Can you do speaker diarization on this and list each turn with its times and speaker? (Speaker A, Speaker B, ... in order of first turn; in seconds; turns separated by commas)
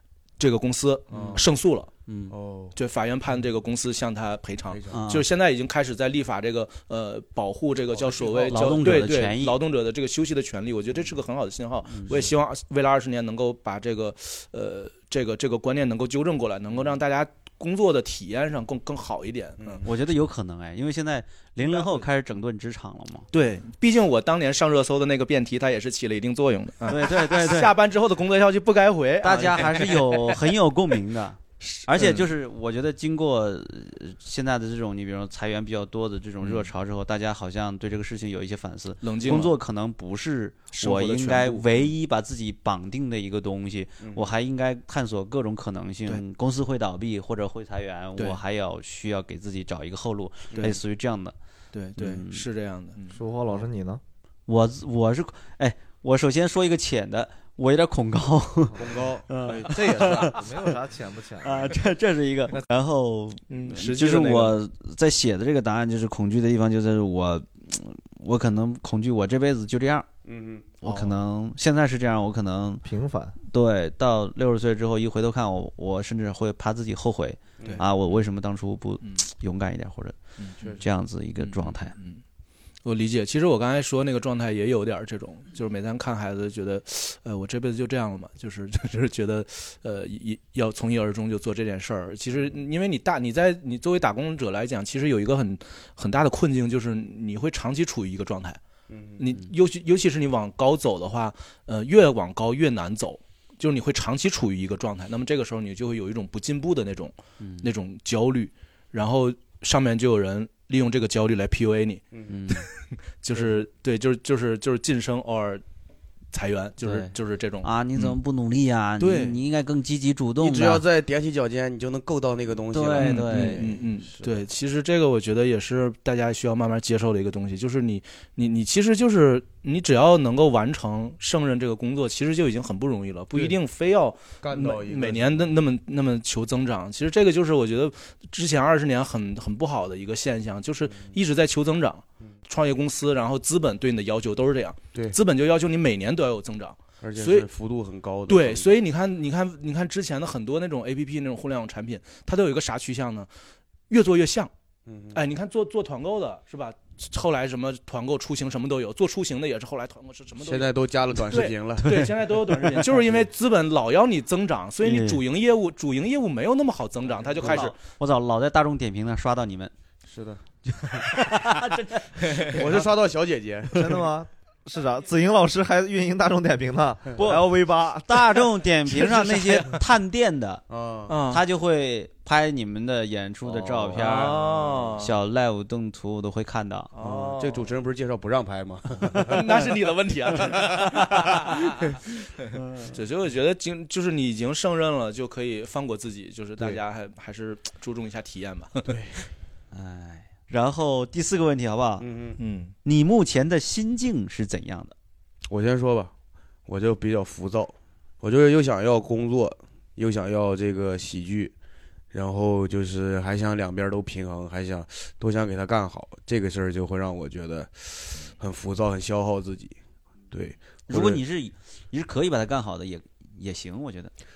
Speaker A: 0.4-1.9, Speaker B: 1.1-1.4, Speaker C: 1.1-1.4, Speaker C: 2.1-2.3, Speaker B: 2.3-2.8, Speaker A: 2.7-19.9, Speaker B: 4.7-5.0, Speaker C: 4.9-5.3, Speaker B: 7.9-9.0, Speaker C: 8.5-9.6, Speaker C: 11.9-12.3, Speaker B: 19.6-19.9, Speaker C: 19.8-23.3, Speaker A: 23.3-30.4, Speaker C: 26.9-27.8, Speaker C: 29.2-51.4, Speaker A: 31.6-32.3, Speaker A: 39.0-39.6, Speaker A: 40.7-41.9, Speaker B: 44.0-44.3, Speaker B: 50.5-50.8, Speaker A: 50.5-50.8, Speaker A: 51.7-53.2, Speaker C: 52.0-52.5, Speaker D: 53.1-54.0, Speaker C: 54.5-60.6, Speaker B: 58.8-60.4, Speaker A: 59.5-60.0, Speaker D: 60.2-61.8, Speaker C: 61.4-70.1, Speaker A: 63.5-64.5, Speaker B: 70.2-70.7, Speaker C: 70.8-72.8, Speaker A: 70.8-71.2, Speaker D: 72.8-73.4, Speaker C: 73.4-80.2, Speaker B: 77.6-77.8, Speaker A: 77.6-78.2, Speaker A: 79.0-79.3, Speaker A: 80.4-80.8, Speaker B: 80.6-80.9, Speaker C: 80.8-81.9, Speaker A: 81.4-82.2, Speaker A: 82.8-98.6, Speaker B: 98.9-99.2, Speaker A: 99.2-112.7, Speaker C: 107.4-107.7, Speaker B: 112.1-112.4, Speaker C: 112.3-112.7, Speaker A: 113.2-115.6, Speaker A: 116.3-118.2, Speaker C: 116.8-120.8, Speaker A: 119.0-119.4, Speaker B: 120.4-124.4, Speaker C: 122.7-123.7, Speaker A: 123.0-147.5, Speaker B: 134.4-135.6, Speaker B: 140.9-141.1, Speaker B: 147.0-148.8, Speaker A: 148.3-153.3, Speaker A: 153.9-154.5, Speaker B: 154.9-155.2, Speaker A: 155.1-167.8, Speaker B: 160.4-163.2, Speaker C: 164.8-165.2, Speaker C: 167.4-169.7, Speaker B: 167.4-167.7, Speaker B: 170.1-170.4, Speaker C: 170.7-172.6, Speaker A: 172.2-172.8, Speaker B: 172.5-174.0, Speaker D: 173.7-178.4, Speaker C: 177.2-180.7, Speaker A: 178.9-179.8, Speaker B: 180.7-181.2, Speaker A: 181.1-181.4, Speaker C: 181.2-184.4, Speaker B: 183.4-185.0, Speaker A: 183.9-185.1, Speaker C: 185.0-186.9, Speaker A: 186.9-187.7, Speaker B: 187.0-189.7, Speaker A: 189.2-198.9, Speaker B: 190.4-191.6, Speaker C: 192.5-192.9, Speaker B: 198.9-199.3, Speaker C: 199.7-202.1, Speaker B: 202.0-202.4, Speaker A: 202.4-202.7, Speaker C: 202.8-204.9, Speaker B: 205.5-206.1, Speaker B: 206.7-211.5, Speaker B: 212.1-219.8, Speaker B: 220.3-221.2, Speaker C: 220.9-224.1